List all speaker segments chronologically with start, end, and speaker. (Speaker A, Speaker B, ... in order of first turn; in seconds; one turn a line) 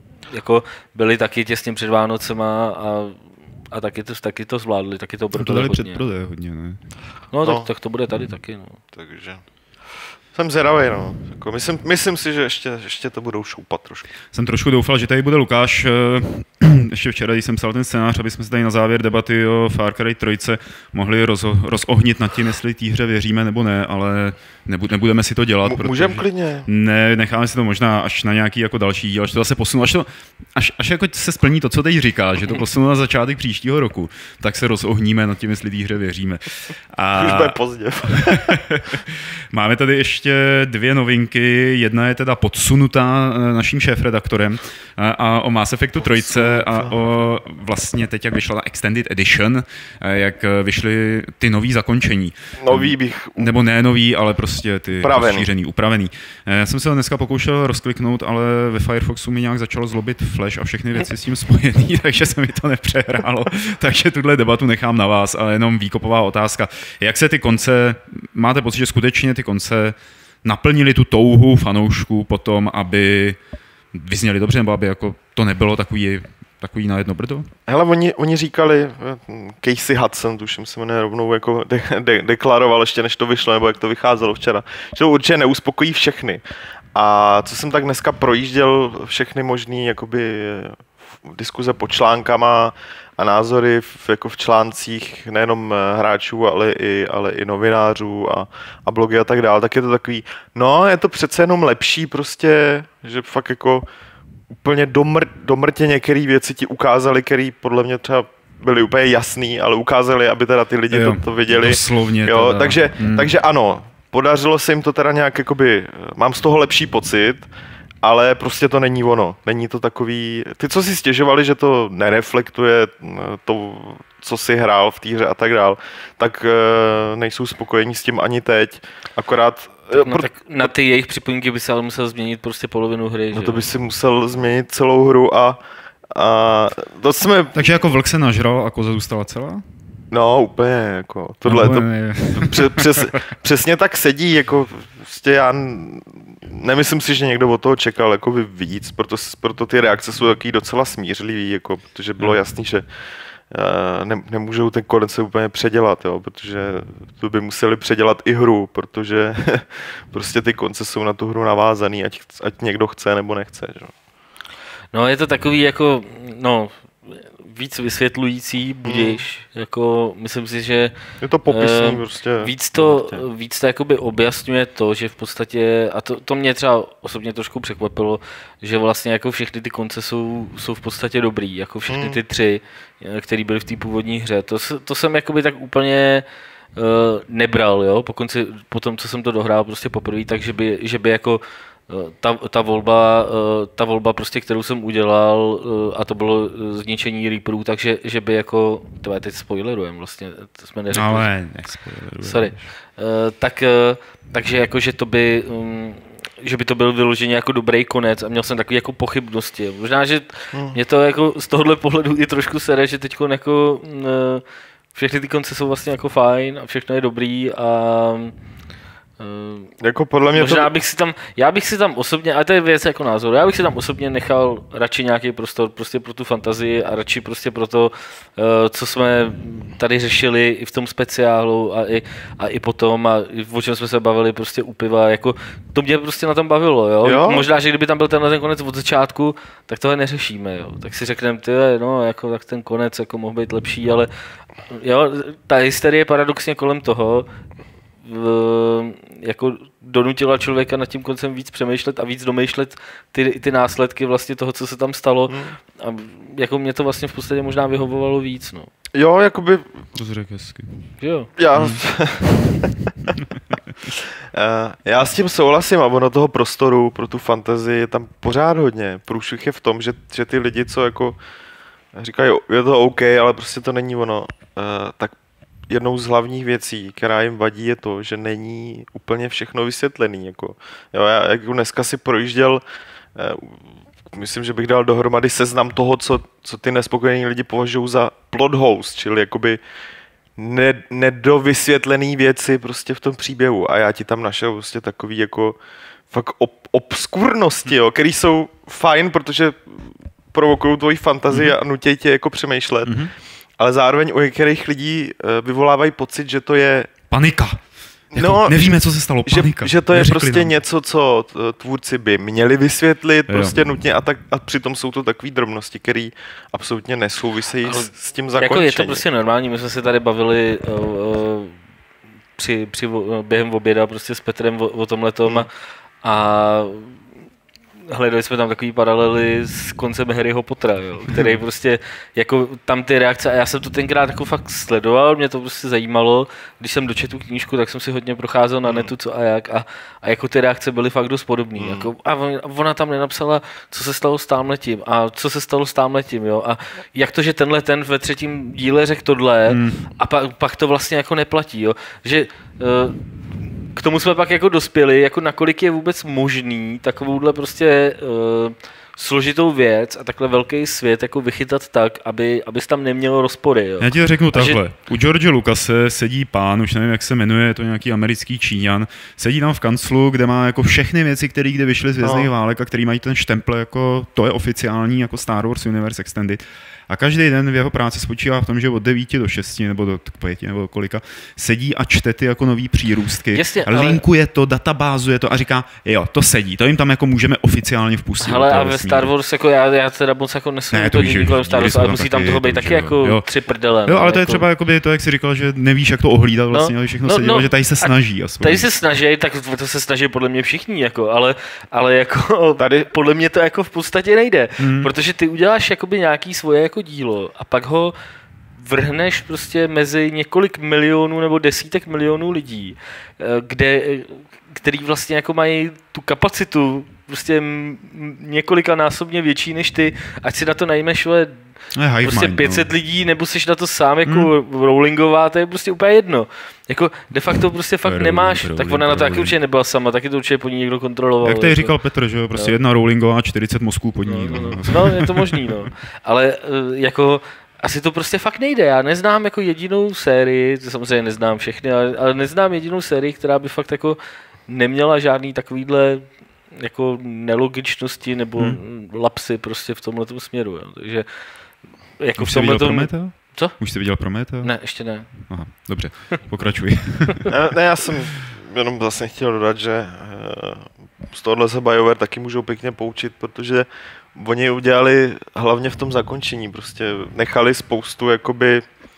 Speaker A: 0.3-6.0
Speaker B: 5.3-6.8
Speaker A: 7.3-8.8
Speaker C: 7.4-7.7
Speaker C: 8.9-14.1
Speaker B: 14.3-37.6
Speaker C: 25.6-26.7
Speaker C: 37.1-38.6
Speaker B: 38.1-73.4
Speaker C: 46.0-47.0
Speaker C: 52.6-53.5
Speaker C: 55.0-55.5
Speaker B: 73.9-77.5
Speaker C: 77.7-86.4
Speaker C: 86.9-103.9
Speaker C: 104.5-117.5
Speaker B: 110.9-113.3
Speaker C: 118.0-130.7
Speaker A: 129.9-133.7
Speaker C: 133.3-135.6
Speaker C: 136.1-137.6
Speaker B: 137.5-139.7
Speaker C: 140.1-152.8
Speaker B: 141.5-143.1
Speaker C: 153.5-163.9
Speaker A: 164.9-170.9
Speaker C: 168.8-169.2
Speaker C: 171.2-173.2
Speaker A: 171.5-186.2
Speaker C: 181.9-182.2
Speaker A: 186.8-201.3
Speaker B: 200.9-202.7
Speaker A: 202.2-218.3
Speaker C: 210.5-210.8
Speaker A: 219.2-219.7
Speaker C: 219.8-220.7
Speaker A: 220.3-244.1
Speaker C: 237.0-237.5
Speaker A: 244.7-247.3
Speaker A: 248.0-258.7
Speaker C: 255.3-255.6
Speaker C: 258.9-259.8
Speaker B: 259.9-260.9
Speaker A: 261.0-261.3
Speaker C: 261.4-262.8
Speaker B: 261.5-261.8
Speaker C: 263.9-271.2
Speaker C: 271.9-275.1
Speaker C: 275.7-282.6
Speaker C: 283.2-289.6
Speaker C: 290.4-295.6
Speaker C: 296.1-303.0
Speaker B: 301.3-301.6
Speaker B: 302.8-303.1
Speaker C: 303.6-306.9
Speaker B: 307.1-307.6
Speaker B: 308.1-310.6
Speaker C: 308.1-319.0
Speaker B: 313.3-313.6
Speaker A: 317.6-321.5
Speaker A: 322.4-325.5
Speaker A: 326.0-326.9
Speaker A: 327.9-353.0
Speaker C: 338.7-338.9
Speaker C: 341.6-341.9
Speaker B: 349.5-349.9
Speaker A: 353.7-364.6
Speaker B: 363.8-389.1
Speaker C: 372.0-372.3
Speaker A: 383.3-384.0
Speaker A: 388.2-394.5
Speaker B: 390.7-393.3
Speaker B: 393.9-398.7
Speaker A: 396.5-407.9
Speaker C: 402.6-402.9
Speaker B: 404.6-404.9
Speaker A: 408.6-421.4
Speaker B: 421.7-422.7
Speaker A: 422.0-431.8
Speaker B: 424.1-424.3
Speaker B: 427.8-429.4
Speaker B: 431.2-435.4
Speaker A: 434.0-451.1
Speaker A: 452.0-453.8
Speaker B: 452.2-457.3
Speaker A: 454.4-455.3
Speaker C: 457.3-468.6